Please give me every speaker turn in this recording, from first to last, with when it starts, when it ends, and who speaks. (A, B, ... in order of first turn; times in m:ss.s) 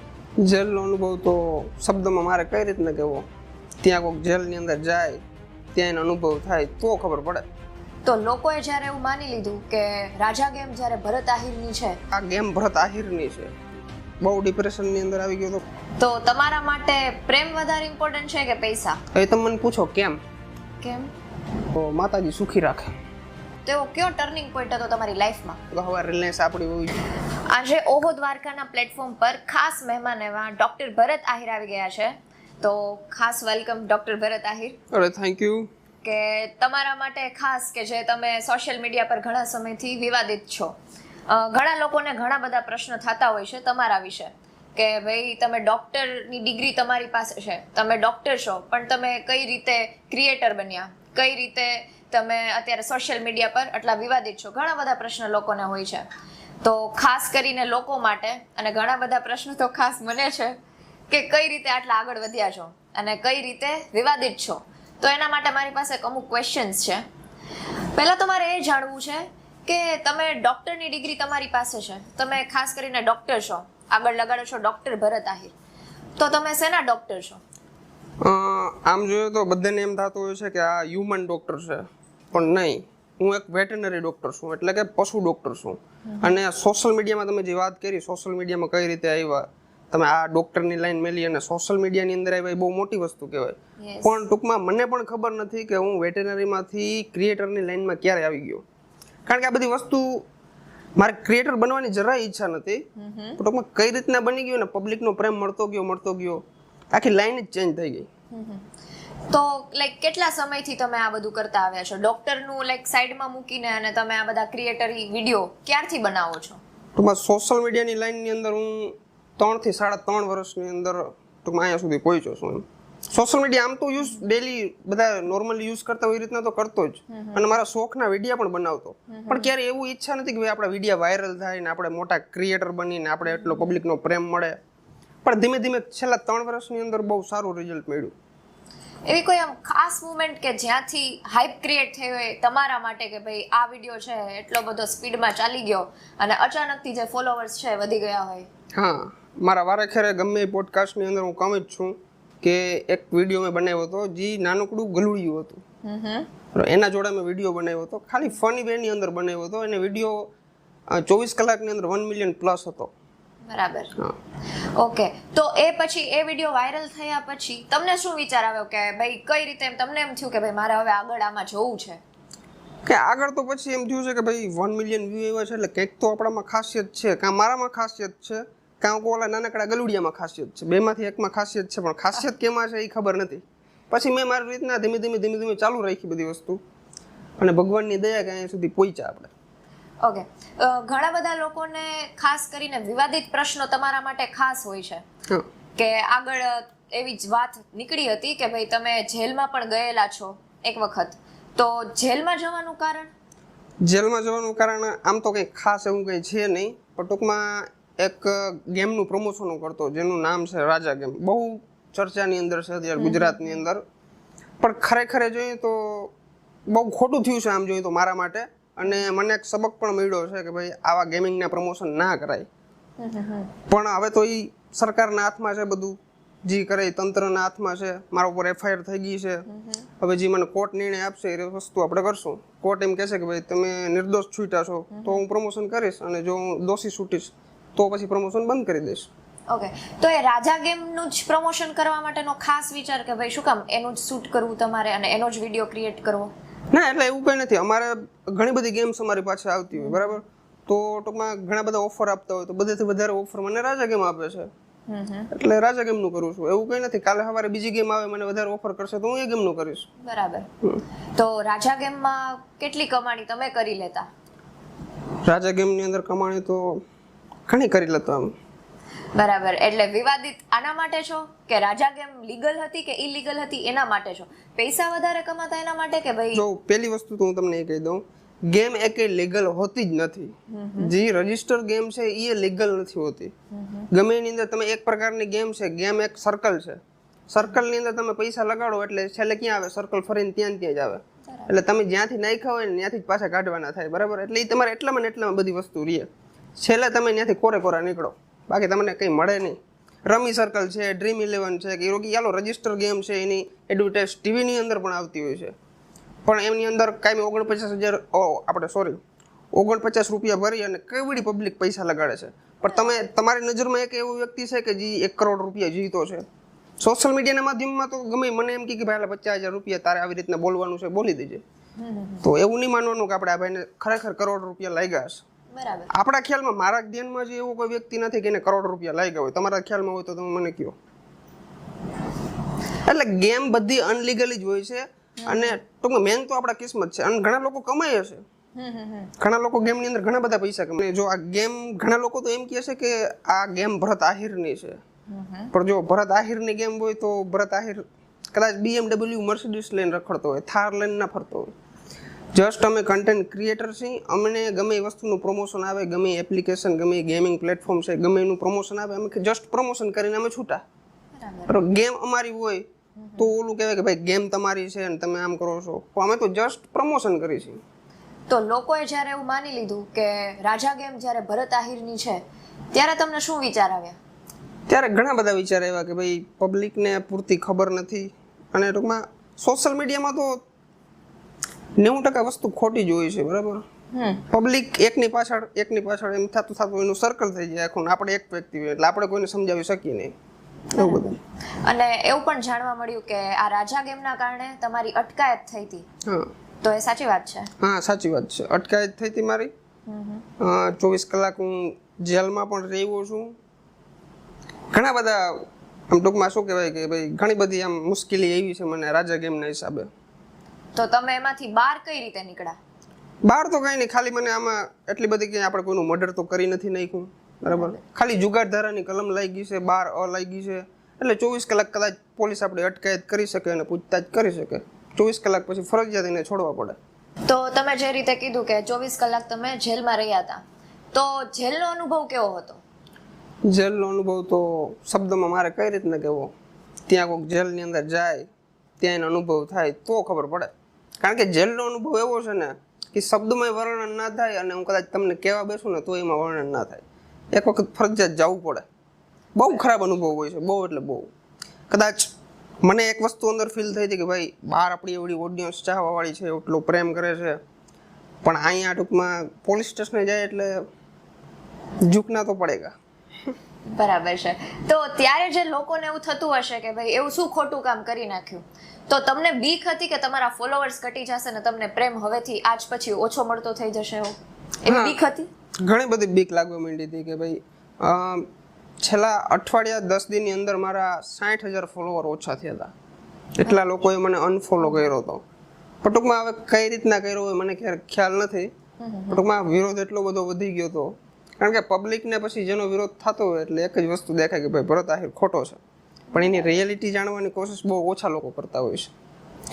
0:00.4-0:03.2 A
0:03.8-0:05.2 A
0:05.8-0:07.4 A
0:08.0-0:12.0 B
0:12.1-0:13.6 A
0:14.2-0:15.6 A
0:16.0-0:19.0 B
0:19.1-0:20.2 A
0:20.8-0:21.1 B
0:21.7-0:22.9 A
0:23.7-0:25.6 B
0:25.7-0:27.0 A
0:27.5-0:34.8 B
0:34.9-0:35.7 A
0:36.0-0:40.8 B
0:41.3-0:56.1 B
0:56.6-1:00.6 B
1:01.1-1:07.0 B
1:08.0-1:15.5 B
1:16.2-1:17.4 B
1:18.2-1:38.6 A
1:26.1-1:26.4 B
1:33.8-1:34.2 B
1:39.3-1:40.2 A
1:41.0-1:42.8 A
1:43.0-1:43.4 B
1:43.4-1:48.1 A
1:48.3-1:48.7 B
1:49.3-1:56.6 B
1:57.0-2:14.6 A
2:07.1-2:07.5 B
2:09.1-2:09.5 B
2:13.3-2:13.8 B
2:15.2-2:18.1 A
2:19.1-2:28.5 B
2:28.8-2:35.6 A
2:35.8-2:36.3 B
2:36.5-2:40.3 A
2:40.9-2:42.9 A
2:43.5-2:43.9 B
2:44.8-2:52.0 B
2:52.9-3:06.6 A
3:07.4-3:09.3 A
3:10.0-3:15.0 B
3:15.8-3:23.1 B
3:23.8-3:33.8 A
3:33.0-3:33.6 B
3:34.6-3:36.1 A
3:36.7-3:42.5 A
3:43.0-3:43.5 B
3:43.7-3:49.5 A
3:49.5-3:49.8 B
3:50.0-3:59.1 A
3:54.9-3:55.2 B
3:59.5-4:06.3 B
4:06.7-4:14.5 A
4:09.8-4:10.2 B
4:14.9-4:15.3 B
4:15.3-4:19.9 A
4:20.0-4:20.5 B
4:21.2-4:24.1 B
4:25.3-4:26.8 A
4:27.5-4:28.3 A
4:29.1-4:36.4 B
4:36.3-4:43.3 A
4:40.5-4:40.9 B
4:43.5-4:43.9 B
4:43.9-5:05.5 A
4:51.2-4:51.5 B
5:06.2-5:09.0 A
5:09.5-5:16.3 A
5:12.7-5:13.0 B
5:16.8-5:21.4 A
5:21.8-5:22.3 B
5:22.2-5:25.2 A
5:25.5-5:25.9 B
5:25.9-5:30.8 A
5:32.8-5:38.2 A
5:35.2-5:35.6 B
5:38.6-5:39.1 B
5:39.2-5:44.8 A
5:45.1-5:45.5 B
5:45.5-5:51.5 A
5:52.4-6:00.6 A
6:01.2-6:01.5 B
6:01.5-6:02.6 A
6:03.0-6:03.3 B
6:03.2-6:07.6 A
6:08.3-6:14.0 B
6:14.7-6:20.4 A
6:21.8-6:23.6 A
6:23.9-6:24.2 B
6:24.3-6:30.1 A
6:30.8-6:31.2 A
6:30.8-6:35.8 B
6:36.6-6:37.5 B
6:37.6-6:39.5 A
6:39.9-6:40.2 B
6:40.4-6:43.3 A
6:44.7-6:49.9 A
6:50.8-6:52.6 B
6:53.2-7:06.8 A
6:57.5-6:57.8 B
7:07.3-7:12.6 B
7:13.5-7:16.3 A
7:16.9-7:18.3 A
7:18.8-7:28.6 A
7:29.4-7:31.1 A
7:31.7-7:37.4 A
7:38.2-7:40.6 A
7:41.8-7:42.7 A
7:43.7-7:55.3 B
7:54.7-7:55.0 A
7:55.6-7:58.3 A
7:58.8-8:02.7 A
8:03.4-8:05.2 A
8:05.8-8:08.5 A
8:08.8-8:09.2 B
8:09.1-8:15.6 A
8:16.1-8:16.5 B
8:16.2-8:18.9 A